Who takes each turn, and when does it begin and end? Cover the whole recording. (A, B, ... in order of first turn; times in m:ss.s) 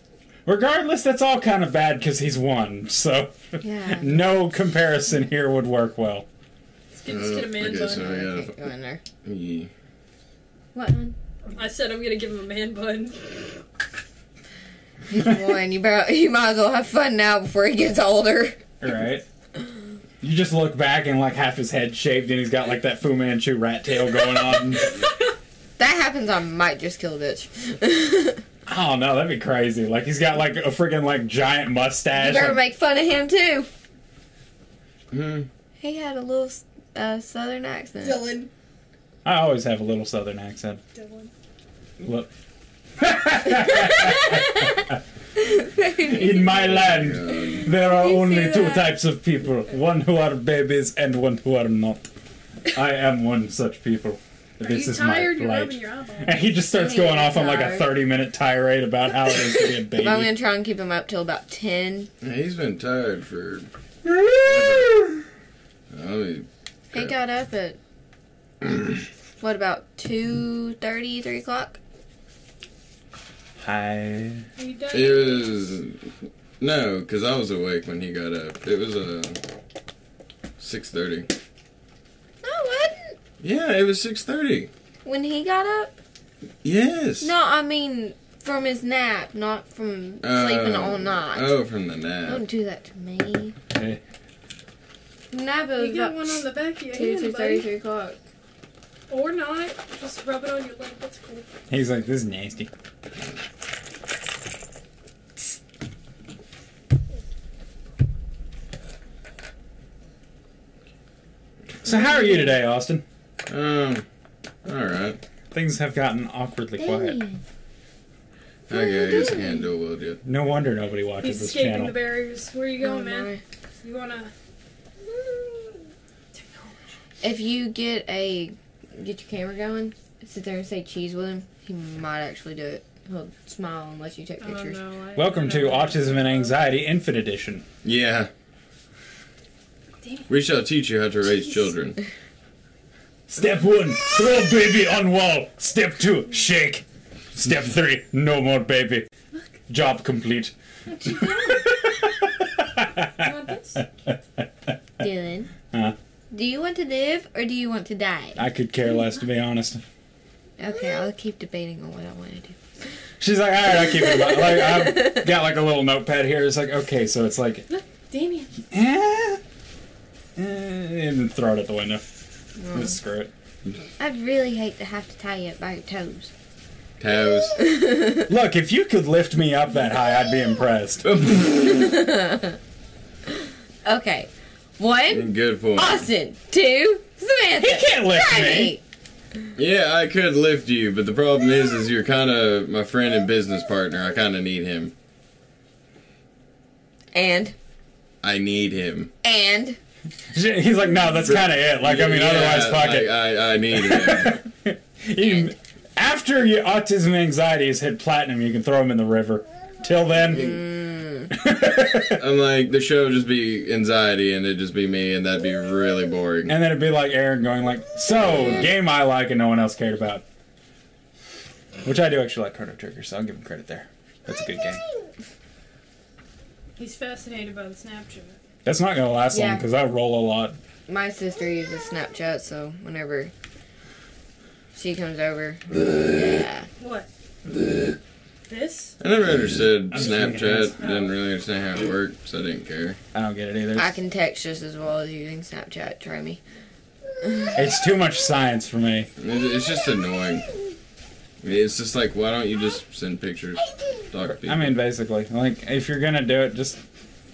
0:00.5-0:06.3 A
0:03.6-0:04.3 B
0:06.9-0:08.1 C
0:07.1-0:08.5 D
0:07.8-0:09.0 B
0:09.2-0:09.7 D
0:10.7-0:11.2 B
0:11.5-0:13.4 C
0:15.1-0:18.6 B
0:18.8-0:19.2 A
0:20.2-0:25.0 A
0:25.8-0:28.4 B
0:28.7-0:32.6 A
0:32.1-0:33.7 B
0:35.1-0:35.5 D
0:35.8-0:38.4 B
0:38.0-0:38.5 C
0:39.2-0:40.8 A
0:41.0-0:41.3 C
0:42.0-0:42.3 A
0:43.0-0:45.0 A
0:43.7-0:44.7 B
0:45.4-0:48.8 B
0:46.0-0:52.1 A
0:46.6-0:47.7 D
0:48.4-0:48.8 C
0:52.7-1:00.3 A
0:54.6-0:56.4 C
0:56.7-0:57.9 B
0:59.9-1:02.1 B
1:02.2-1:03.7 D
1:04.0-1:05.2 A
1:04.4-1:04.9 D
1:05.9-1:07.2 D
1:06.9-1:07.8 B
1:09.4-1:11.8 B
1:13.6-1:14.4 A
1:14.6-1:15.5 C
1:14.9-1:19.4 D
1:20.6-1:21.3 D
1:22.4-1:23.2 B
1:23.4-1:24.7 D
1:25.0-1:26.0 B
1:26.6-1:27.3 D
1:27.2-1:31.5 B
1:30.2-1:32.4 D
1:32.2-1:33.6 B
1:33.7-1:34.0 A
1:35.3-1:38.2 B
1:35.8-1:37.7 C
1:39.1-1:41.5 C
1:41.7-1:42.7 A
1:51.8-1:53.0 A
1:51.9-1:52.5 B
1:53.5-1:54.0 D
1:54.6-1:55.2 D
1:55.5-1:57.2 A
1:56.8-1:57.4 B
1:58.7-1:59.7 B
1:58.7-2:00.2 D
2:00.2-2:02.0 A
2:01.2-2:03.3 C
2:02.8-2:03.4 B
2:03.8-2:04.3 C
2:06.3-2:06.9 C
2:07.2-2:14.8 B
2:14.4-2:16.5 C
2:15.2-2:17.6 A
2:17.8-2:18.3 D
2:20.0-2:20.3 C
2:20.3-2:22.0 D
2:23.3-2:29.1 A
2:29.7-2:30.5 A
2:30.9-2:31.6 C
2:31.0-2:34.7 A
2:33.2-2:33.8 C
2:35.0-2:35.5 B
2:36.3-2:38.4 B
2:38.4-2:39.8 A
2:40.6-2:42.6 B
2:43.2-2:47.7 A
2:44.0-2:45.2 B
2:47.7-2:48.5 C
2:48.7-2:49.4 A
2:50.4-2:53.3 A
2:52.6-2:53.0 B
2:54.0-2:56.3 B
2:57.0-2:57.6 D
2:57.6-2:58.3 B
2:58.3-3:01.1 A
3:01.0-3:01.8 D
3:01.6-3:02.6 B
3:03.8-3:08.8 B
3:05.1-3:06.1 D
3:07.6-3:08.8 A
3:09.6-3:14.9 D
3:17.1-3:17.6 B
3:18.2-3:19.1 D
3:19.2-3:19.8 B
3:20.3-3:30.7 A
3:21.2-3:24.4 D
3:25.2-3:25.5 B
3:30.3-3:31.3 B
3:31.3-3:32.2 A
3:32.2-3:36.5 D
3:36.5-3:40.2 A
3:38.2-3:38.7 D
3:41.8-3:44.8 A
3:46.8-3:48.4 C
3:48.6-3:50.6 A
3:49.3-3:49.6 B
3:50.9-3:53.3 B
3:54.7-3:56.7 B
3:56.8-3:57.1 C
3:58.5-3:59.0 C
3:59.0-4:03.0 D
3:59.9-4:00.8 A
4:00.8-4:01.1 C
4:03.1-4:03.9 A
4:03.8-4:06.4 B
4:07.2-4:07.6 B
4:07.6-4:09.1 A
4:09.2-4:10.4 D
4:11.4-4:14.7 D
4:14.3-4:16.8 A